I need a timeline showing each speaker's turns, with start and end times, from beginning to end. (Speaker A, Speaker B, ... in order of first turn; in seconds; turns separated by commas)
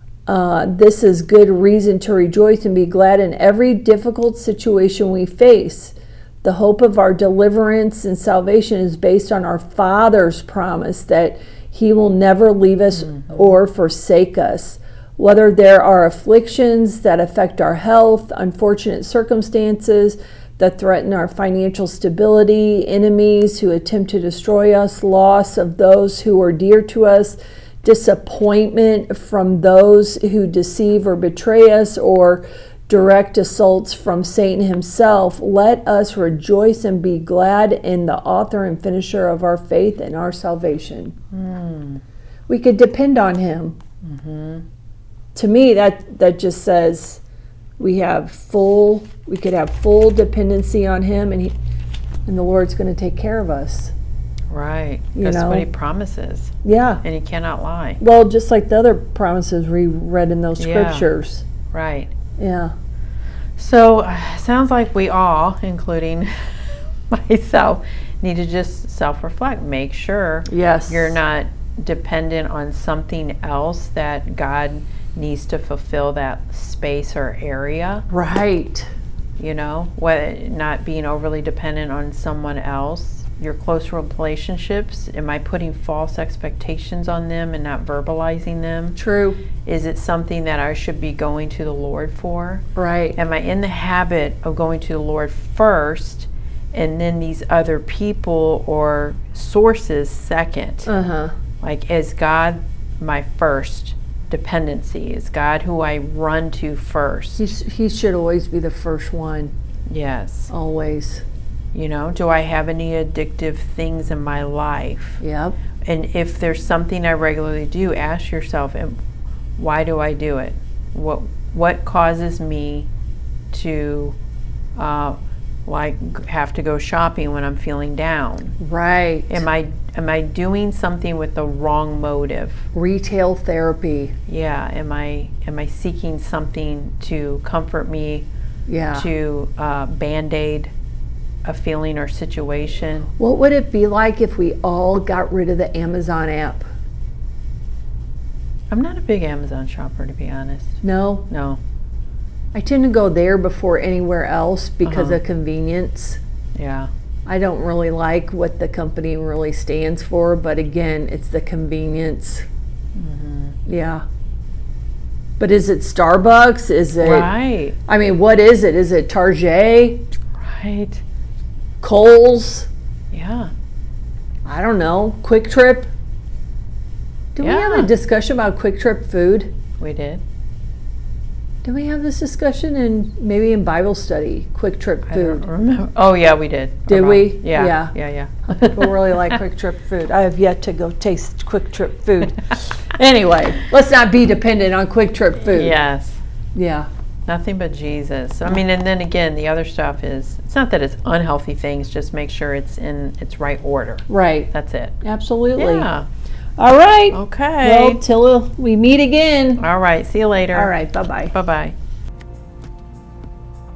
Speaker A: 0.3-41.1, Speaker B: 13.0-13.6, Speaker B: 41.3-42.0, Speaker A: 42.5-43.8, Speaker B: 44.0-44.6, Speaker A: 45.3-47.2, Speaker A: 47.8-51.5, Speaker A: 52.3-53.9, Speaker B: 54.5-58.0, Speaker A: 55.1-55.7, Speaker A: 56.6-57.0, Speaker A: 58.0-61.4, Speaker B: 60.6-61.1, Speaker B: 61.7-62.1, Speaker A: 62.4-62.7, Speaker B: 63.6-78.0, Speaker A: 70.5-71.2, Speaker A: 78.1-78.9, Speaker B: 79.4-89.0, Speaker A: 89.0-89.4, Speaker B: 89.6-100.9, Speaker A: 92.8-93.2, Speaker A: 100.8-101.3, Speaker B: 101.6-107.5, Speaker A: 107.4-109.5, Speaker B: 109.9-110.5, Speaker A: 110.5-111.2, Speaker B: 111.7-115.2, Speaker A: 115.2-115.5, Speaker B: 115.8-119.0, Speaker B: 119.6-122.9, Speaker B: 123.5-124.2, Speaker B: 124.8-128.6, Speaker A: 128.6-129.4, Speaker B: 129.3-132.7, Speaker A: 132.7-134.1, Speaker B: 134.3-138.3, Speaker A: 138.7-139.1, Speaker B: 138.9-140.7, Speaker B: 141.4-143.1, Speaker A: 143.2-146.6, Speaker B: 148.7-151.6, Speaker A: 150.8-151.3, Speaker A: 152.5-156.2, Speaker B: 154.8-155.2, Speaker B: 156.5-156.9, Speaker A: 157.2-162.4, Speaker B: 162.9-163.6, Speaker A: 163.7-164.0, Speaker A: 165.4-167.3, Speaker B: 167.0-167.8, Speaker A: 167.9-170.1, Speaker B: 170.4-171.0, Speaker A: 171.8-172.7, Speaker B: 173.1-173.5, Speaker A: 174.4-175.9, Speaker A: 177.3-179.5, Speaker B: 177.4-177.9, Speaker B: 179.8-180.2, Speaker A: 181.6-185.4, Speaker B: 185.1-189.4, Speaker A: 186.9-187.9, Speaker A: 188.5-195.8, Speaker B: 195.5-196.2, Speaker A: 196.5-196.9, Speaker B: 197.3-205.0, Speaker A: 204.1-205.9, Speaker B: 205.6-206.1, Speaker A: 206.6-209.6, Speaker B: 207.1-208.0, Speaker B: 209.6-210.7, Speaker A: 210.5-211.3, Speaker B: 211.3-211.7